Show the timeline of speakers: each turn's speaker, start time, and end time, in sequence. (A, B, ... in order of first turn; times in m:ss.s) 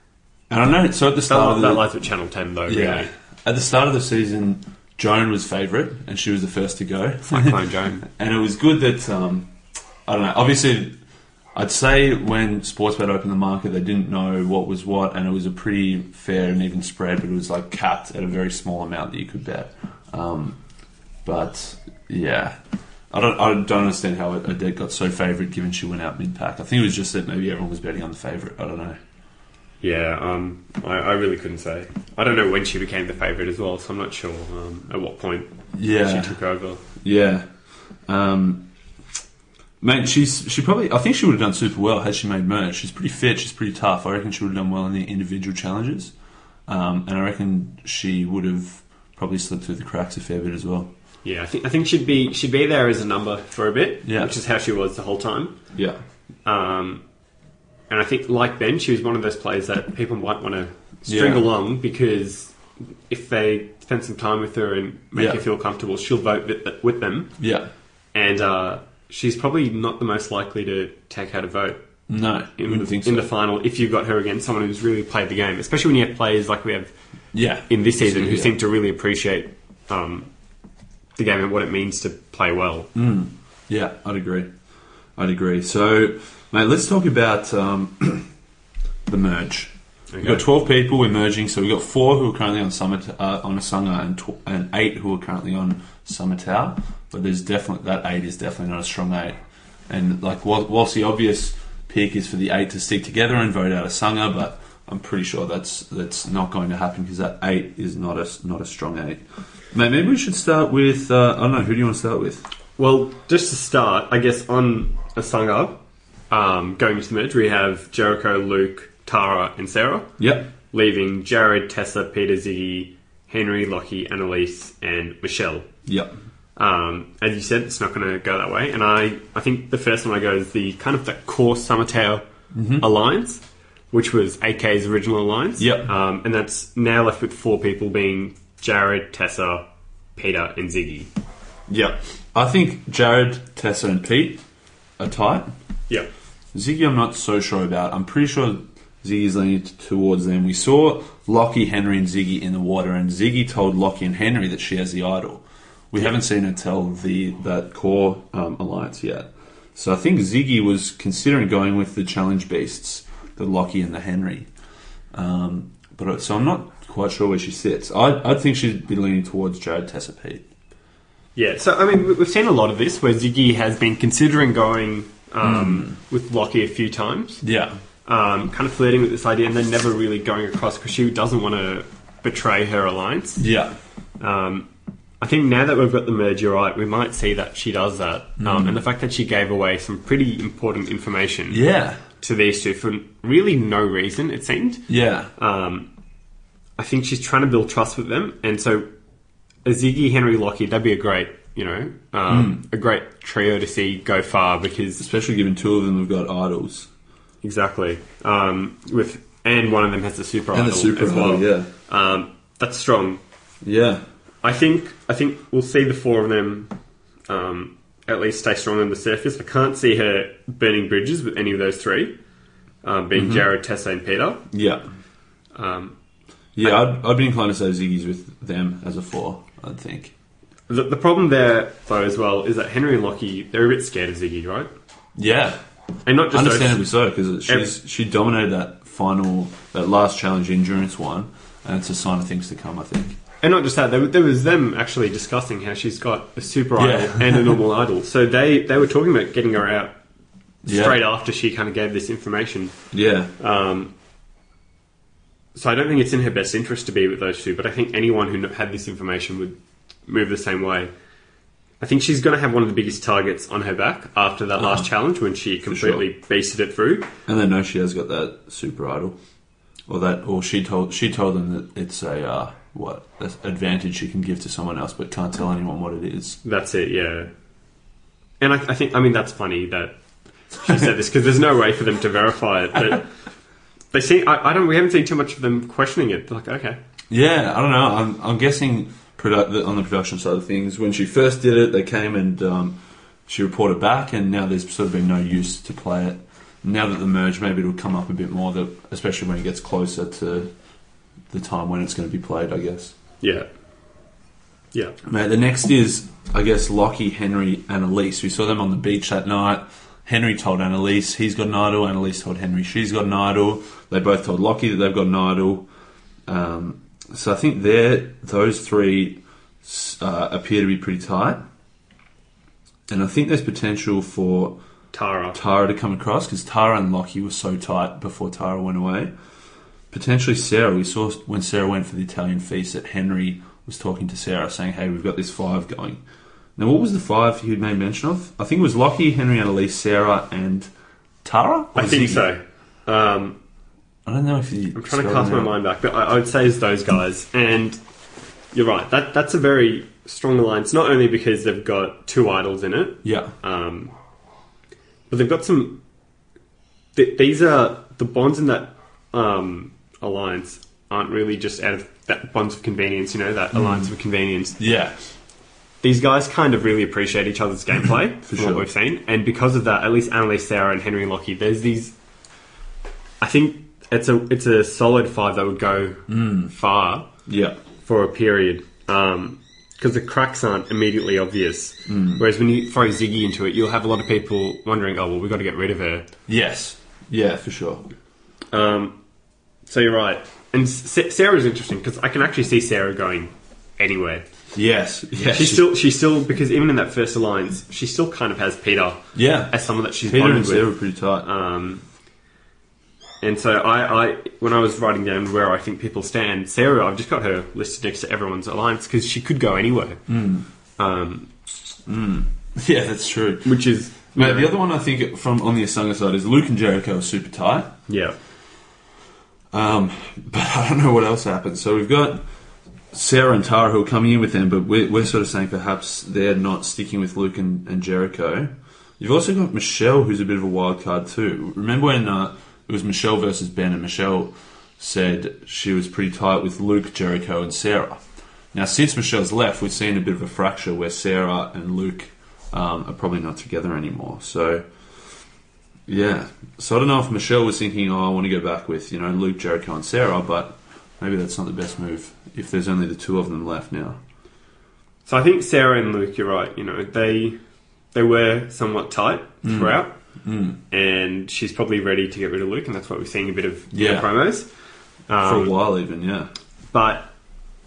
0:00.5-0:01.9 A
0:01.3-0:03.1 B
0:02.7-0:09.5 A
0:07.2-0:08.0 B
0:10.1-0:11.0 A
0:11.6-0:20.6 A
0:21.2-0:22.6 A
0:23.1-0:29.0 A
0:29.8-0:36.8 B
0:35.8-0:36.4 A
0:37.0-0:37.5 A
0:38.1-0:38.7 A
0:39.8-0:46.1 A
0:46.7-0:50.9 A
0:51.2-0:55.6 B
0:54.0-0:54.3 A
0:55.8-0:56.0 A
0:56.5-0:57.0 B
0:57.9-1:02.6 B
1:01.1-1:01.4 A
1:03.1-1:07.3 B
1:05.2-1:05.4 A
1:07.4-1:07.7 A
1:08.1-1:11.8 B
1:12.1-1:13.3 A
1:12.6-1:16.9 B
1:17.3-1:18.6 A
1:17.7-1:20.3 B
1:21.2-1:22.9 B
1:23.0-1:24.5 A
1:25.2-1:28.3 A
1:29.1-1:39.4 A
1:30.1-1:30.4 B
1:39.9-1:52.4 A
1:52.8-2:00.1 B
2:00.2-2:00.5 A
2:00.7-2:05.7 B
2:05.9-2:06.2 A
2:06.6-2:12.2 B
2:12.5-2:12.9 A
2:12.8-2:19.6 B
2:15.6-2:15.9 A
2:20.2-2:21.1 B
2:21.7-2:24.4 A
2:25.0-2:25.5 A
2:26.5-2:44.5 A
2:45.1-2:50.5 A
2:51.4-2:57.4 B
2:55.4-2:56.0 A
2:57.4-2:57.8 A
2:58.1-3:03.5 B
3:03.4-3:03.7 A
3:04.2-3:04.7 B
3:05.2-3:11.6 B
3:08.4-3:08.8 A
3:11.5-3:12.0 A
3:12.2-3:14.8 B
3:14.9-3:15.3 A
3:15.4-3:15.9 B
3:16.8-3:18.9 B
3:19.6-3:25.0 B
3:22.3-3:22.6 A
3:25.0-3:26.9 A
3:27.4-3:33.2 B
3:30.5-3:31.7 A
3:33.6-3:34.0 A
3:34.4-3:36.7 B
3:37.3-3:42.1 B
3:42.8-3:44.5 B
3:43.2-3:43.5 A
3:44.5-3:44.8 A
3:45.6-3:46.0 B
3:46.6-3:50.1 A
3:50.7-3:54.7 B
3:55.2-3:55.6 A
3:56.1-3:56.9 B
3:56.3-4:03.2 A
4:03.4-4:10.0 B
4:06.8-4:07.6 A
4:10.6-4:11.0 A
4:10.7-4:12.7 B
4:12.9-4:13.3 A
4:13.4-4:13.9 B
4:15.6-4:20.9 B
4:21.8-4:27.1 B
4:24.6-4:24.9 A
4:25.7-4:26.0 A
4:27.3-4:29.2 A
4:29.9-4:36.4 A
4:36.4-4:37.3 B
4:38.4-4:40.0 B
4:40.5-4:43.1 B
4:43.9-4:46.8 B
4:47.1-5:00.5 A
5:01.3-5:03.0 A
5:03.2-5:03.5 B
5:05.0-5:15.7 A
5:16.3-5:21.4 A
5:22.9-5:24.6 A
5:24.9-5:25.4 B
5:25.3-5:29.1 A
5:29.9-5:36.0 A
5:36.6-5:40.7 A
5:41.2-5:42.3 A
5:41.8-5:43.4 B
5:44.1-5:45.6 A
5:44.8-5:47.8 B
5:48.5-5:53.9 B
5:53.0-5:53.3 A
5:55.1-5:55.8 B
5:57.0-6:04.6 B
6:03.5-6:03.9 A
6:04.6-6:05.0 A
6:05.8-6:11.9 B
6:08.2-6:08.7 A
6:13.2-6:17.1 B
6:16.1-6:16.5 A
6:17.3-6:17.6 A
6:17.8-6:26.1 B
6:21.9-6:22.2 A
6:26.3-6:27.9 A
6:28.5-6:29.0 B
6:29.7-6:34.3 B
6:34.5-6:35.7 A
6:35.2-6:40.7 B
6:39.1-6:39.5 A
6:40.0-6:41.3 A
6:41.2-6:41.8 B
6:43.2-6:50.0 B
6:50.1-6:50.5 A
6:50.8-6:51.3 B
6:51.9-6:53.6 A
6:53.4-6:54.5 B
6:54.2-6:57.8 A
6:57.9-6:58.2 B
6:59.5-7:02.2 A
7:02.9-7:18.0 A
7:18.5-7:24.7 A
7:25.9-7:34.0 A
7:35.1-7:37.4 B
7:37.9-7:40.0 B
7:39.4-7:40.6 A
7:40.7-7:44.5 B
7:43.7-7:44.1 A
7:45.1-7:45.5 B
7:45.2-7:46.3 A
7:46.7-7:47.1 B